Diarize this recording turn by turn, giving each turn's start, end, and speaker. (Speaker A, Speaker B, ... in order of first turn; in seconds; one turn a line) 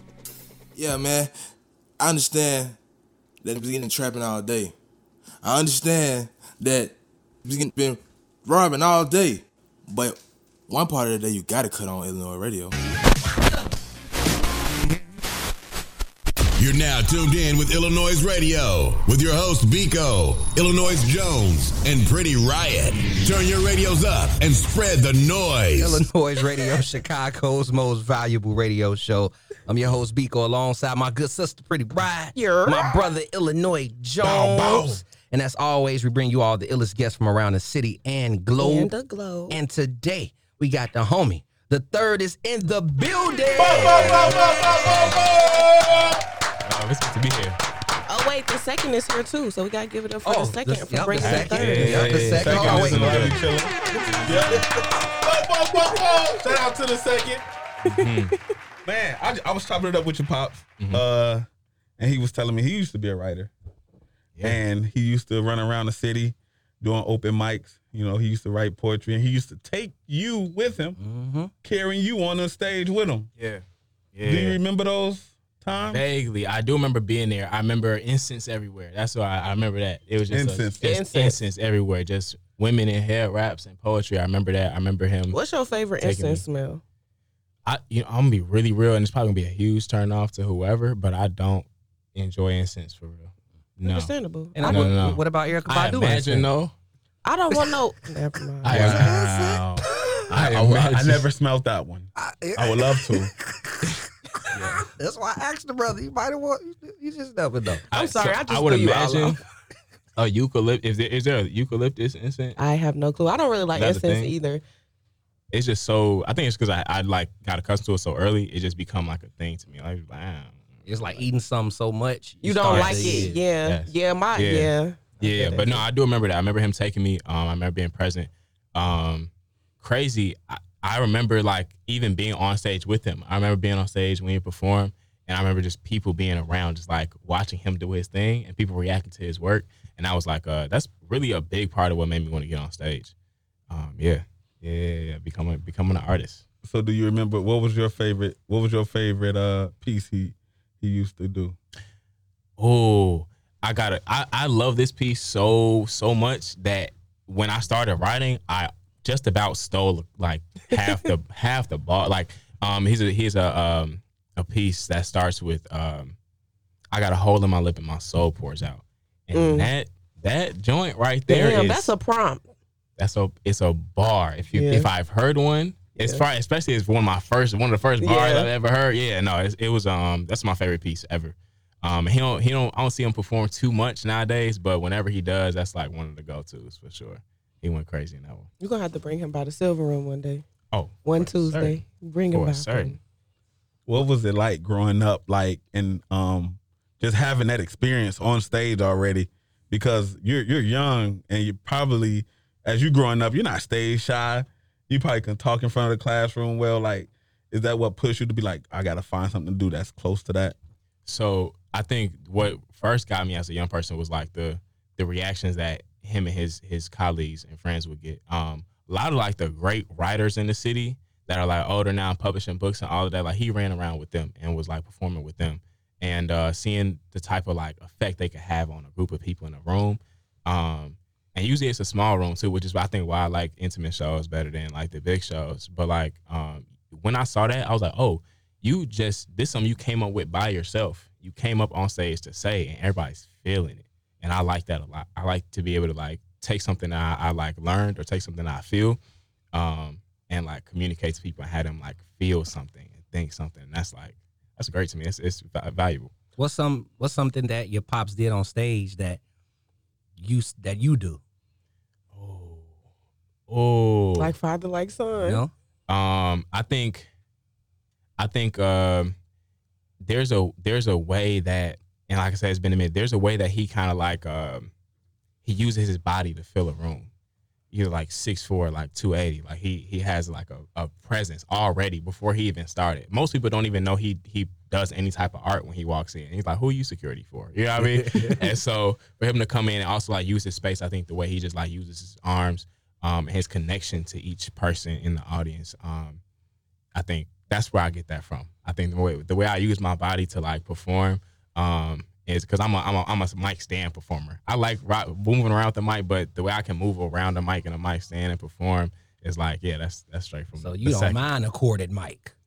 Speaker A: 0.8-1.3
Speaker A: 2.0-2.8
Speaker A: 3.4-4.7
Speaker A: 5.4-12.7
Speaker B: 16.6-26.0
Speaker C: 25.8-38.9
Speaker D: 32.4-33.0
Speaker E: 34.2-35.0
Speaker D: 38.6-39.6
Speaker C: 39.5-44.2
Speaker E: 43.5-46.0
Speaker F: 44.1-44.4
Speaker F: 46.6-47.6
Speaker D: 48.1-51.8
Speaker C: 50.2-53.2
Speaker F: 51.2-53.5
Speaker E: 51.8-57.4
Speaker F: 54.1-54.4
Speaker F: 57.9-58.3
Speaker D: 57.9-58.3
Speaker E: 58.9-61.5
Speaker F: 60.8-61.0
Speaker E: 62.0-63.5
Speaker F: 64.4-64.6
Speaker E: 64.4-71.0
Speaker C: 71.0-71.5
Speaker E: 71.6-73.3
Speaker F: 73.4-73.6
Speaker F: 74.1-74.6
Speaker E: 74.3-76.0
Speaker F: 75.8-85.4
Speaker E: 80.3-80.8
Speaker D: 80.8-81.4
Speaker D: 85.3-86.8
Speaker F: 86.0-86.4
Speaker F: 87.7-94.1
Speaker D: 93.8-94.9
Speaker C: 94.5-96.5
Speaker F: 94.6-96.7
Speaker D: 97.2-99.0
Speaker F: 98.7-101.3
Speaker C: 98.7-100.2
Speaker E: 98.8-99.1
Speaker E: 100.3-103.3
Speaker C: 102.2-104.0
Speaker F: 104.5-104.8
Speaker C: 104.5-107.8
Speaker D: 107.9-109.4
Speaker F: 107.9-109.4
Speaker F: 110.2-112.6
Speaker D: 112.6-114.6
Speaker F: 113.8-114.3
Speaker F: 115.5-121.2
Speaker C: 120.9-123.4
Speaker D: 122.4-125.8
Speaker F: 122.7-143.1
Speaker F: 143.7-146.4
Speaker E: 146.6-151.6
Speaker F: 152.6-166.2
Speaker F: 166.9-171.9
Speaker D: 169.3-169.7
Speaker D: 171.3-172.4
Speaker F: 173.0-188.5
Speaker D: 174.5-174.9
Speaker D: 176.0-176.2
Speaker D: 178.0-178.5
Speaker D: 188.6-190.4
Speaker F: 190.7-191.8
Speaker D: 191.1-193.0
Speaker F: 192.3-193.0
Speaker E: 193.9-210.6
Speaker F: 211.1-249.0
Speaker F: 249.5-256.1
Speaker C: 256.4-259.2
Speaker C: 260.2-261.2
Speaker F: 262.1-262.7
Speaker F: 263.5-264.3
Speaker D: 264.2-265.4
Speaker C: 265.2-265.5
Speaker F: 265.9-267.1
Speaker F: 268.2-269.1
Speaker F: 270.0-274.7
Speaker F: 275.4-277.1
Speaker F: 277.7-296.2
Speaker C: 287.8-288.4
Speaker F: 296.9-311.2
Speaker C: 310.6-312.3